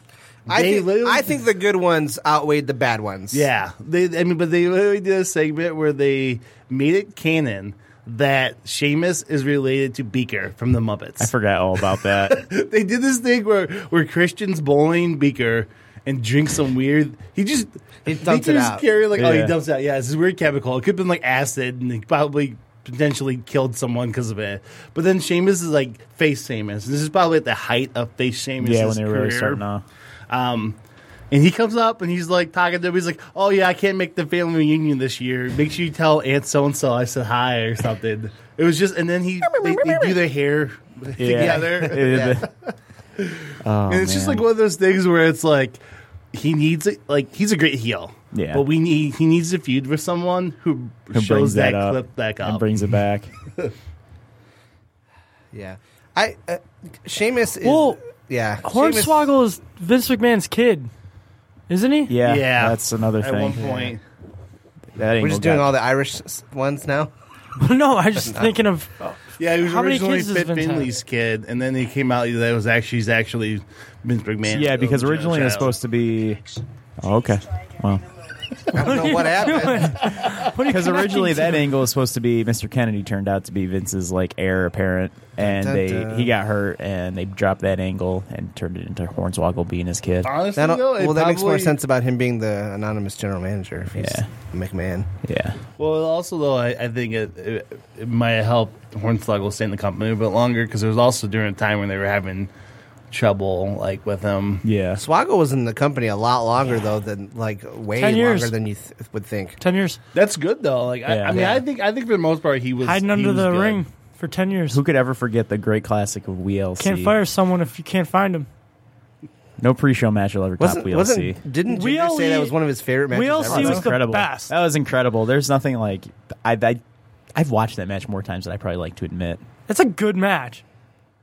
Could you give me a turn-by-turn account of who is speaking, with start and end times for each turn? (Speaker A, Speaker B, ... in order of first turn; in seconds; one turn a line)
Speaker A: 0.5-1.4
Speaker B: 0.5-3.5
Speaker A: 3.3-11.3
Speaker C: 11.2-12.5
Speaker A: 12.1-29.6
Speaker B: 18.1-18.8
Speaker C: 19.1-19.5
Speaker C: 28.6-29.8
Speaker A: 30.3-30.8
Speaker A: 31.3-42.5
Speaker B: 39.5-40.0
Speaker C: 41.2-42.5
Speaker B: 41.2-42.4
Speaker A: 43.2-45.8
Speaker C: 43.6-44.4
Speaker A: 46.3-52.7
Speaker C: 48.3-48.6
Speaker C: 51.1-53.3
Speaker B: 55.5-59.3
Speaker D: 57.6-58.0
Speaker D: 58.6-60.9
Speaker D: 61.7-62.1
Speaker C: 62.1-63.8
Speaker A: 62.2-64.0
Speaker C: 65.0-65.7
Speaker B: 65.2-67.1
Speaker D: 67.6-70.9
Speaker B: 68.2-68.5
Speaker A: 69.4-75.7
Speaker C: 74.5-76.4
Speaker C: 77.0-78.0
Speaker B: 78.7-80.0
Speaker D: 78.7-81.7
Speaker C: 80.6-90.3
Speaker B: 85.4-86.3
Speaker A: 90.2-91.8
Speaker B: 90.5-95.1
Speaker C: 94.0-94.3
Speaker C: 95.2-95.6
Speaker A: 95.8-102.5
Speaker A: 103.1-104.6
Speaker C: 104.6-105.0
Speaker B: 105.0-109.6
Speaker D: 108.0-108.5
Speaker D: 109.6-110.0
Speaker A: 110.1-113.8
Speaker C: 111.1-111.6
Speaker D: 112.8-114.8
Speaker C: 114.7-117.2
Speaker D: 116.8-118.5
Speaker C: 119.6-121.4
Speaker B: 120.6-123.9
Speaker D: 121.7-122.5
Speaker D: 123.1-124.5
Speaker C: 123.5-126.8
Speaker C: 127.3-129.4
Speaker D: 129.7-130.6